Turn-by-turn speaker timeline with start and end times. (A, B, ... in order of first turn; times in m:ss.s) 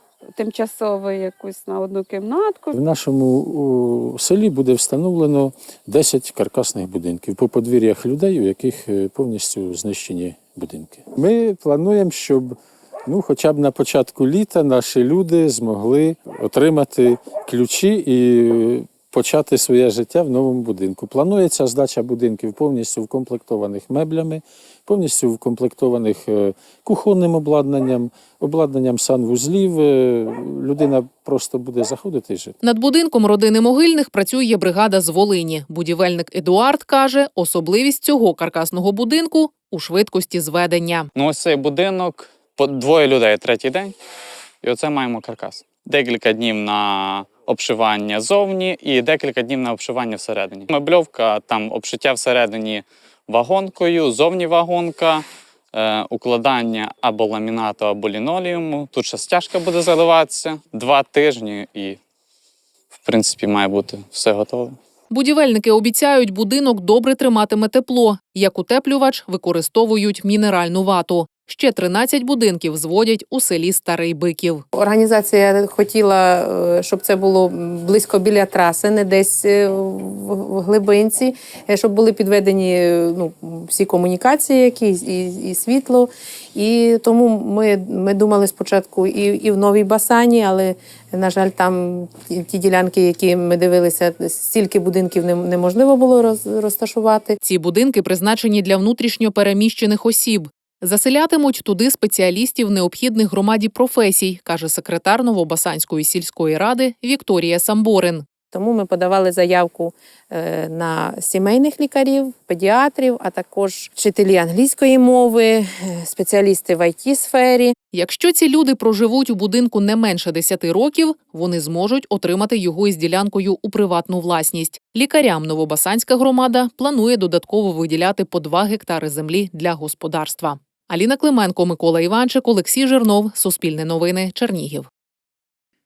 0:00.4-0:02.6 A
0:02.7-0:32.5 B
0:32.6-0:41.1 C
0:41.1-0:43.9 D
0:44.6-1:02.0 D
1:02.9-1:04.8 D
1:05.1-1:14.6 C
1:14.7-1:37.4 E
1:37.4-1:48.3 C
1:48.5-1:57.8 E
1:57.9-2:14.9 C